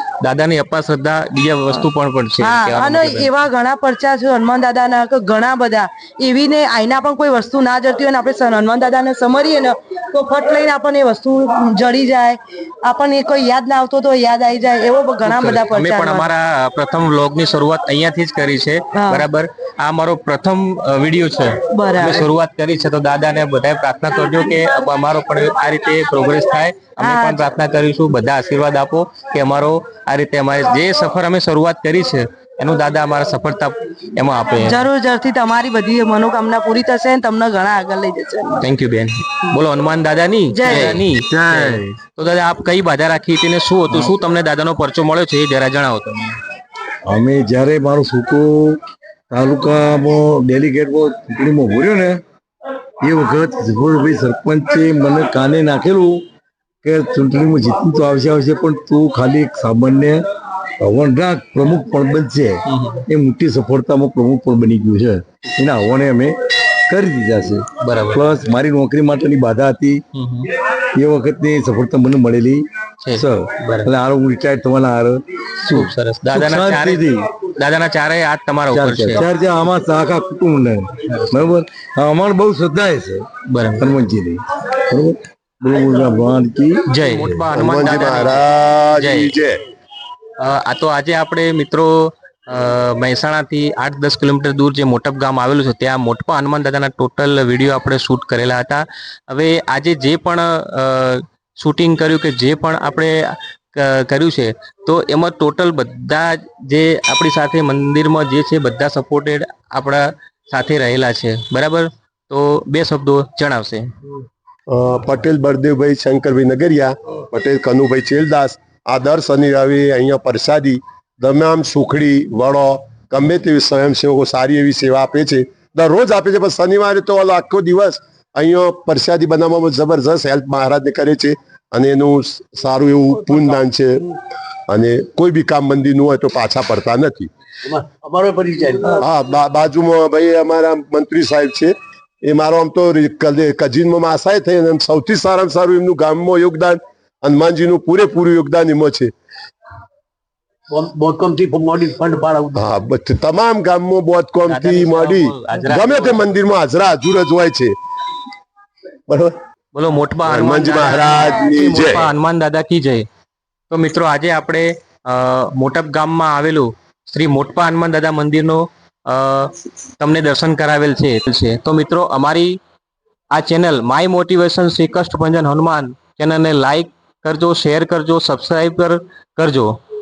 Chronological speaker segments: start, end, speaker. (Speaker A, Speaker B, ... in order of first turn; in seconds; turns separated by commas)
Speaker A: 0.2-3.3, Speaker B: 2.4-16.3, Speaker A: 15.2-34.8, Speaker B: 18.9-19.3, Speaker B: 21.7-22.3, Speaker B: 27.0-27.5, Speaker B: 34.5-38.6, Speaker A: 38.6-46.4, Speaker B: 40.5-41.1, Speaker C: 41.4-41.8, Speaker C: 47.0-48.8, Speaker C: 49.3-52.2, Speaker C: 53.0-56.3, Speaker C: 56.8-60.2, Speaker C: 60.8-66.3, Speaker A: 62.7-63.0, Speaker C: 66.9-70.0, Speaker A: 67.8-68.3, Speaker A: 70.1-70.5, Speaker C: 71.0-77.2, Speaker A: 73.0-73.9, Speaker A: 75.7-77.0, Speaker A: 77.6-79.2, Speaker C: 78.7-87.5, Speaker A: 81.1-81.4, Speaker A: 83.5-83.9, Speaker A: 86.9-88.5, Speaker D: 87.5-89.6, Speaker A: 89.0-89.3, Speaker A: 90.4-113.9, Speaker D: 114.7-134.1, Speaker D: 134.7-137.3, Speaker E: 137.6-139.1, Speaker D: 139.0-149.1, Speaker E: 150.7-152.7, Speaker D: 152.6-157.8, Speaker A: 154.5-156.2, Speaker D: 159.1-159.4, Speaker A: 159.7-163.1, Speaker D: 160.2-162.1, Speaker A: 163.7-172.6, Speaker A: 173.3-179.8